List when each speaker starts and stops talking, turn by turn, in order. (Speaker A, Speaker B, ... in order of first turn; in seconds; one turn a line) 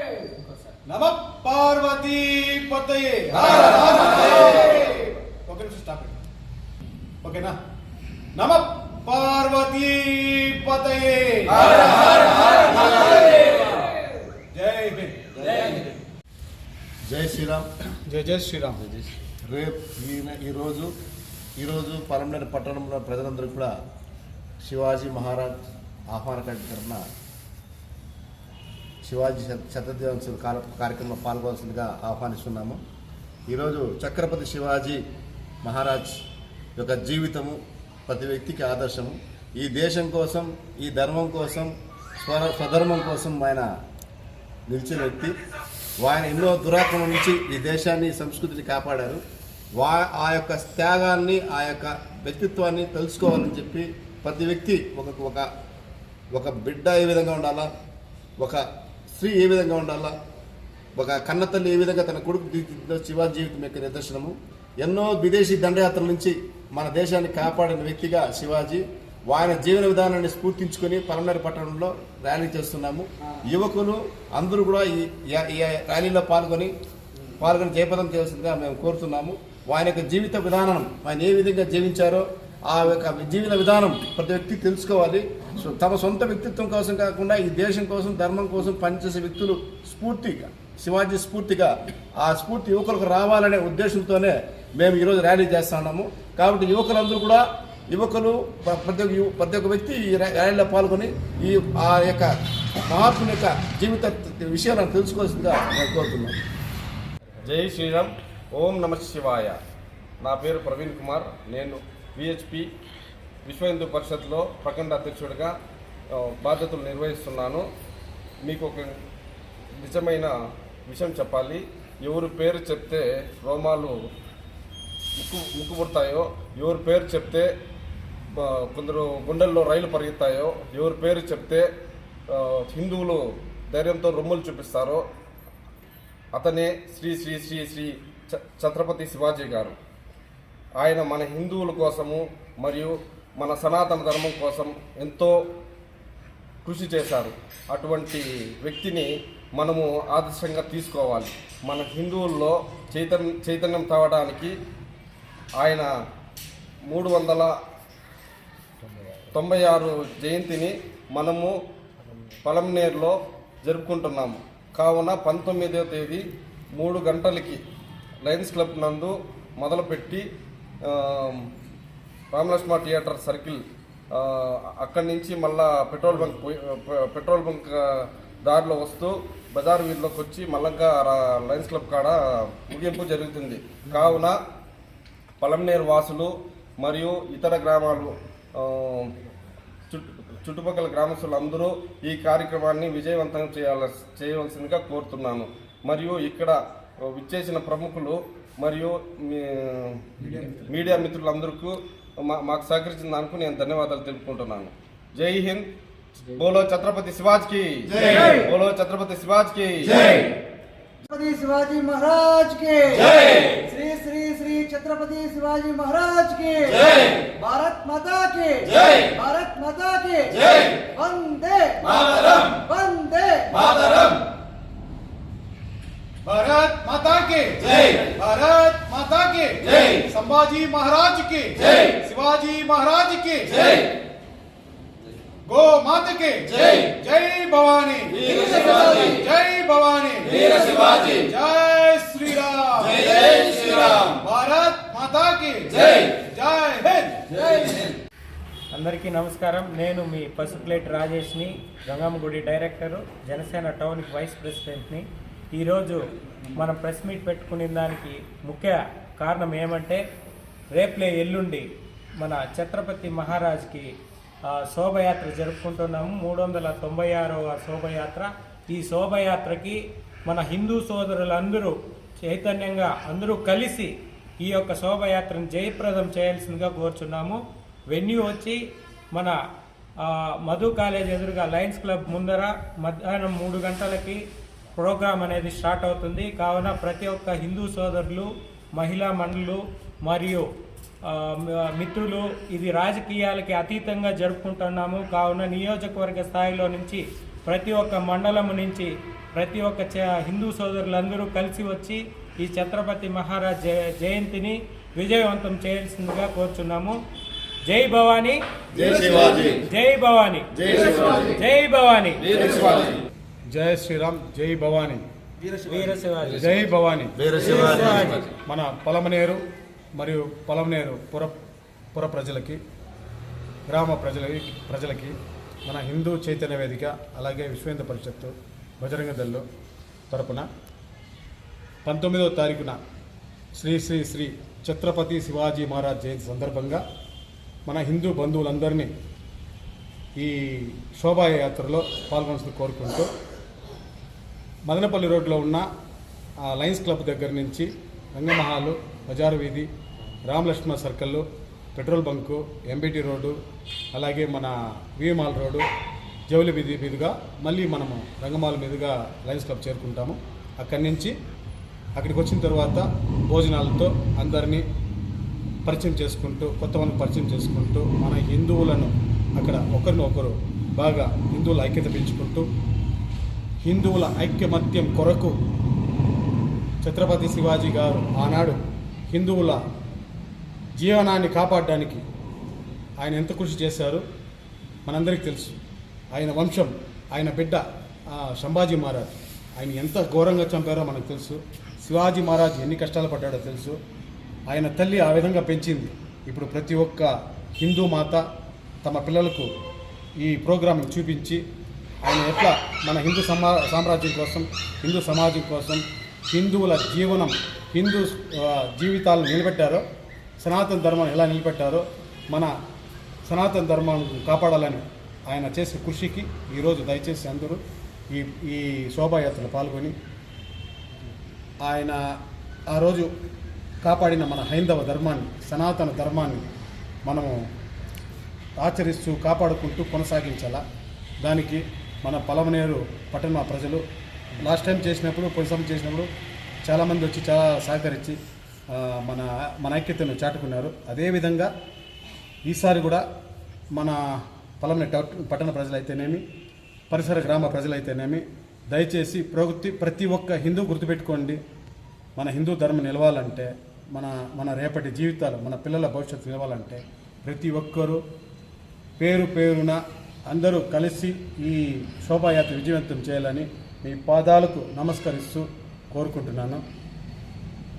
Speaker A: 0.8-6.2
Speaker A: 7.2-7.6
Speaker A: 8.3-13.5
Speaker A: 14.5-15.3
Speaker B: 15.5-15.7
Speaker B: 17.1-17.7
Speaker A: 18.1-18.8
Speaker B: 18.8-20.9
Speaker B: 21.6-23.7
Speaker B: 24.6-25.6
Speaker B: 26.1-27.1
Speaker B: 29.0-32.8
Speaker B: 33.5-35.0
Speaker B: 35.6-36.1
Speaker B: 36.8-43.6
Speaker B: 44.7-45.3
Speaker B: 46.0-49.2
Speaker B: 49.8-55.5
Speaker B: 56.3-57.7
Speaker B: 58.4-60.1
Speaker B: 61.0-76.7
Speaker B: 77.4-102.3
Speaker B: 102.9-106.4
Speaker C: 107.4-109.6
Speaker C: 110.2-112.7
Speaker C: 113.5-115.5
Speaker C: 116.2-117.6
Speaker C: 118.4-118.9
Speaker C: 119.8-120.3
Speaker C: 120.9-124.0
Speaker C: 125.2-127.5
Speaker C: 128.3-131.7
Speaker C: 132.3-135.1
Speaker C: 136.3-139.8
Speaker C: 140.8-145.3
Speaker C: 146.6-154.6
Speaker C: 155.6-155.9
Speaker C: 156.9-157.5
Speaker C: 159.3-161.5
Speaker C: 162.4-166.2
Speaker C: 166.8-167.6
Speaker C: 168.2-170.3
Speaker C: 170.8-171.5
Speaker C: 172.3-173.6
Speaker C: 174.1-184.4
Speaker C: 185.4-189.1
Speaker C: 189.9-205.7
Speaker C: 206.3-210.3
Speaker D: 211.1-224.1
Speaker A: 226.2-233.8
Speaker A: 235.5-247.3
Speaker E: 248.7-256.0
Speaker E: 256.6-260.0
Speaker E: 260.7-261.7
Speaker E: 262.2-263.9
Speaker E: 264.5-279.4
Speaker E: 280.0-284.2
Speaker E: 284.8-290.5
Speaker E: 291.1-307.0
Speaker E: 307.7-308.4
Speaker B: 308.7-309.6
Speaker E: 309.6-312.2
Speaker B: 310.6-311.4
Speaker C: 312.2-313.0
Speaker A: 313.5-315.0
Speaker E: 315.6-316.6
Speaker A: 316.3-317.2
Speaker B: 317.2-318.2
Speaker E: 317.4-318.2
Speaker A: 318.4-319.4
Speaker A: 320.0-321.4
Speaker A: 321.9-322.6
Speaker A: 323.7-325.1
Speaker A: 325.7-329.4
Speaker A: 330.1-330.5
Speaker A: 331.9-332.8
Speaker A: 333.6-336.8
Speaker A: 337.7-338.9
Speaker A: 340.2-343.1
Speaker A: 344.7-345.7
Speaker A: 346.4-349.7
Speaker A: 350.3-351.2
Speaker A: 351.8-353.4
Speaker A: 353.9-355.6
Speaker A: 356.3-361.1
Speaker A: 362.0-364.6
Speaker A: 365.6-372.5
Speaker A: 373.6-375.4
Speaker A: 376.8-378.6
Speaker A: 379.1-379.6
Speaker A: 380.8-382.0
Speaker A: 383.0-384.0
Speaker A: 384.9-385.6
Speaker A: 386.1-393.8
Speaker A: 394.5-398.2
Speaker A: 398.8-399.5
Speaker A: 400.2-401.4
Speaker A: 402.0-409.8
Speaker A: 410.4-412.5
Speaker A: 413.2-419.9
Speaker A: 421.6-422.0
Speaker A: 422.7-423.1
Speaker A: 423.8-426.4
Speaker A: 427.1-427.4
Speaker A: 428.6-430.6
Speaker A: 431.2-433.8
Speaker A: 434.4-436.1
Speaker A: 436.6-438.2
Speaker A: 438.7-441.5
Speaker A: 442.4-443.1
Speaker A: 443.7-444.0
Speaker A: 444.6-446.2
Speaker A: 446.9-451.4
Speaker A: 452.2-458.0
Speaker A: 459.0-466.6